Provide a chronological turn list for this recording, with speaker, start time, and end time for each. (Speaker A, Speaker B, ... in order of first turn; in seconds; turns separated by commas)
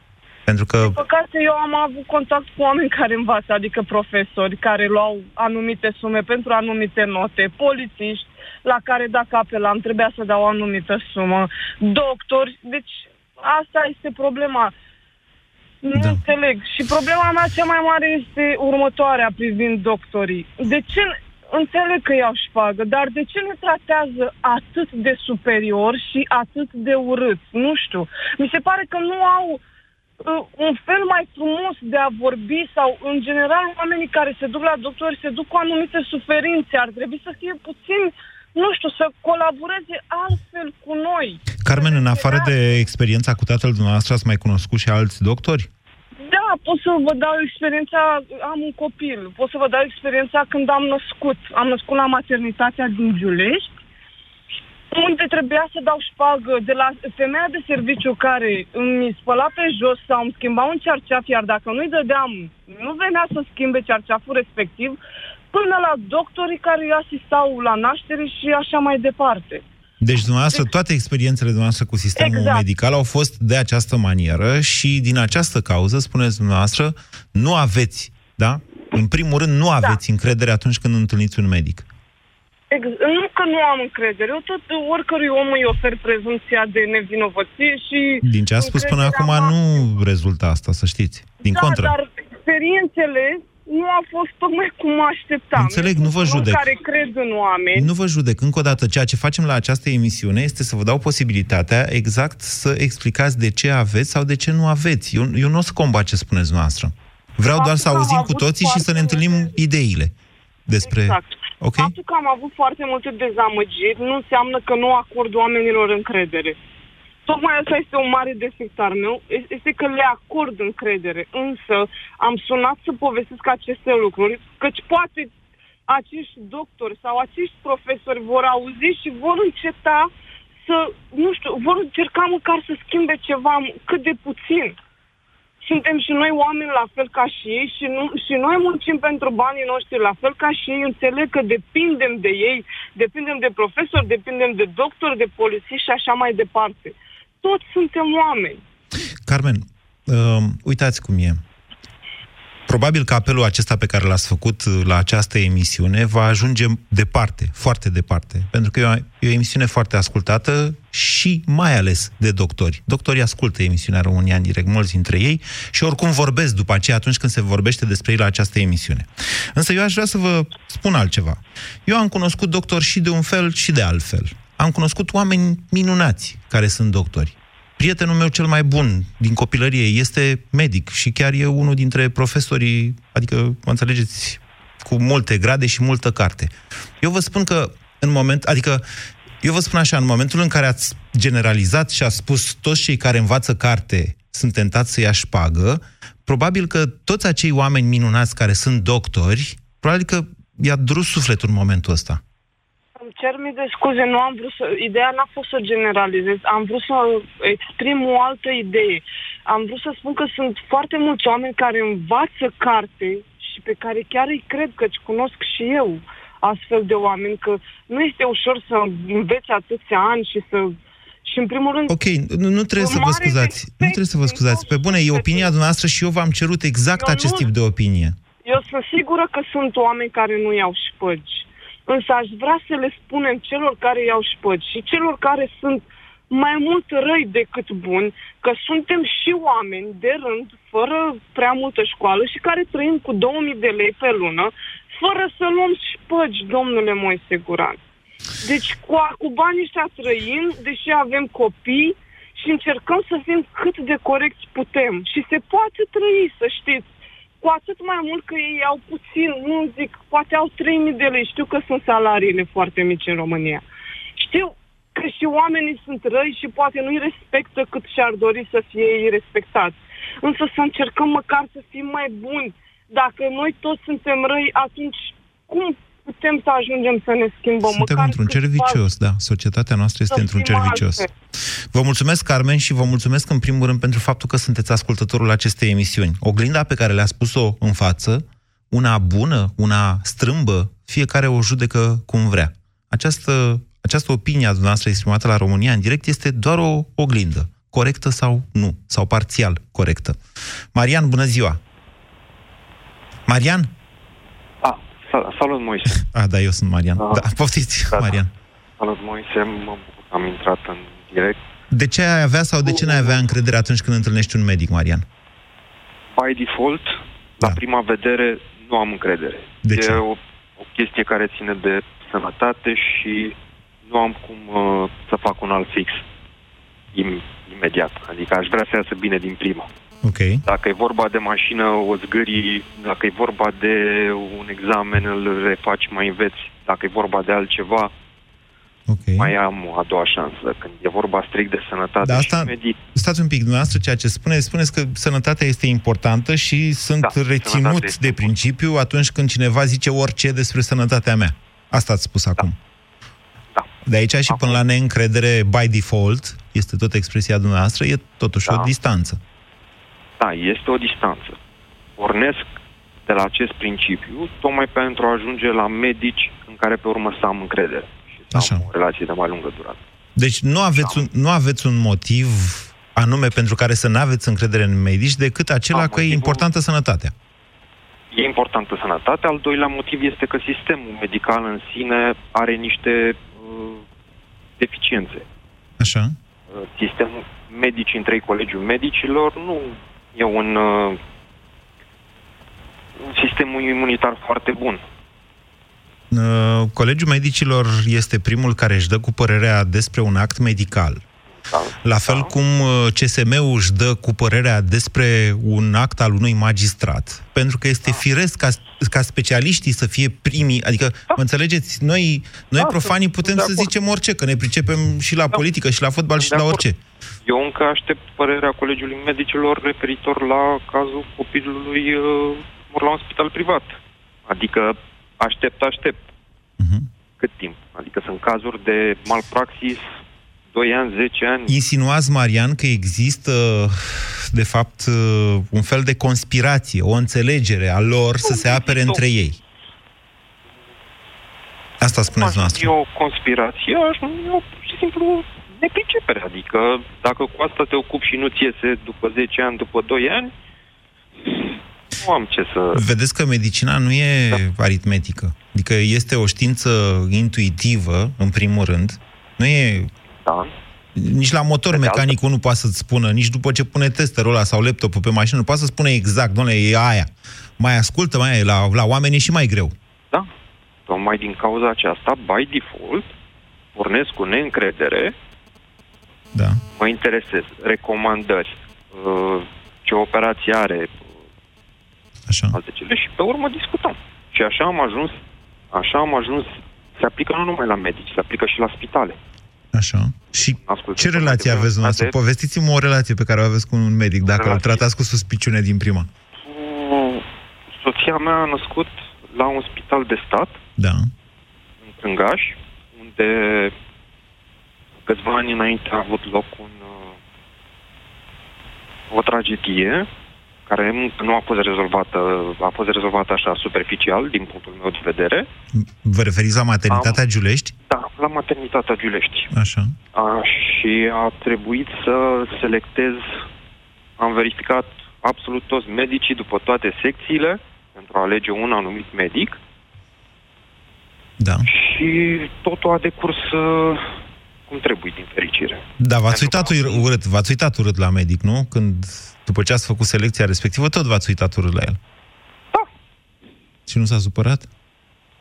Speaker A: 0.5-1.0, Speaker B: 0.8-14.7, Speaker B: 15.8-29.6, Speaker A: 15.9-16.2, Speaker B: 30.2-42.5, Speaker A: 41.6-45.7, Speaker B: 46.2-53.7, Speaker B: 54.9-65.0, Speaker B: 65.5-69.6, Speaker A: 70.0-81.9, Speaker B: 72.2-72.6, Speaker B: 82.7-89.9, Speaker A: 88.2-91.9, Speaker B: 91.4-97.9, Speaker A: 95.5-96.6, Speaker A: 97.7-110.1, Speaker B: 107.5-109.5, Speaker A: 110.7-111.9, Speaker B: 110.8-116.6, Speaker B: 117.2-125.3, Speaker B: 125.9-130.1, Speaker B: 130.6-134.8, Speaker B: 135.6-148.6, Speaker A: 149.2-151.4, Speaker A: 152.7-188.8, Speaker A: 189.4-202.2, Speaker B: 203.0-220.7, Speaker B: 221.2-222.0, Speaker A: 221.9-228.2, Speaker B: 222.7-225.5, Speaker B: 226.9-227.5, Speaker B: 228.4-247.8, Speaker B: 248.4-256.9, Speaker B: 257.4-263.6, Speaker B: 264.1-278.8, Speaker A: 277.6-281.1, Speaker B: 280.1-281.1, Speaker A: 281.7-300.2, Speaker A: 300.7-301.6, Speaker A: 303.3-303.7, Speaker C: 304.6-306.0, Speaker A: 306.0-308.3, Speaker C: 307.0-307.2, Speaker C: 307.9-308.2, Speaker C: 308.8-311.4, Speaker A: 311.7-315.0, Speaker C: 312.6-313.3, Speaker C: 316.1-323.3, Speaker A: 319.6-320.0, Speaker C: 323.9-326.0, Speaker C: 326.9-329.7, Speaker A: 330.0-330.4, Speaker C: 330.4-337.9, Speaker A: 338.9-339.3, Speaker C: 339.2-342.8, Speaker A: 342.0-352.6, Speaker C: 347.0-348.3, Speaker A: 353.9-359.2, Speaker C: 354.3-354.6, Speaker C: 358.4-358.7, Speaker C: 360.2-361.4, Speaker C: 362.0-362.5, Speaker C: 363.1-369.8, Speaker A: 368.3-368.6, Speaker A: 370.1-377.1, Speaker C: 370.8-371.0, Speaker C: 375.7-376.4, Speaker C: 378.1-383.8, Speaker C: 384.6-385.2, Speaker A: 385.8-386.1, Speaker C: 386.5-391.0, Speaker C: 393.0-394.8, Speaker A: 396.1-401.0, Speaker C: 401.4-402.3, Speaker A: 401.8-416.8, Speaker C: 412.6-413.7, Speaker C: 416.2-416.6, Speaker C: 417.2-426.0, Speaker A: 426.6-426.9, Speaker C: 427.2-429.9, Speaker C: 430.5-431.5, Speaker A: 431.5-439.4, Speaker C: 438.2-439.0, Speaker A: 441.8-442.7, Speaker C: 442.1-450.3, Speaker C: 451.2-452.8, Speaker A: 452.7-459.9, Speaker C: 460.2-460.5, Speaker A: 460.9-469.7, Speaker C: 461.7-462.1, Speaker C: 470.9-473.1, Speaker C: 473.7-475.1, Speaker A: 476.3-476.6, Speaker C: 476.7-481.1, Speaker A: 482.3-482.6, Speaker C: 482.5-485.2, Speaker C: 485.7-489.2, Speaker A: 489.7-496.1, Speaker C: 490.5-492.1, Speaker C: 494.3-494.8, Speaker C: 496.4-500.6, Speaker A: 500.8-501.1, Speaker C: 501.8-503.7, Speaker C: 505.1-507.1, Speaker C: 509.1-510.1, Speaker C: 510.7-515.5, Speaker A: 515.7-517.7, Speaker C: 516.9-517.2, Speaker C: 517.9-519.5, Speaker A: 519.5-519.9, Speaker C: 520.1-523.4, Speaker C: 524.2-529.6, Speaker A: 531.4-531.7, Speaker C: 531.6-534.0, Speaker C: 534.7-537.0, Speaker A: 536.0-542.0, Speaker A: 543.9-544.7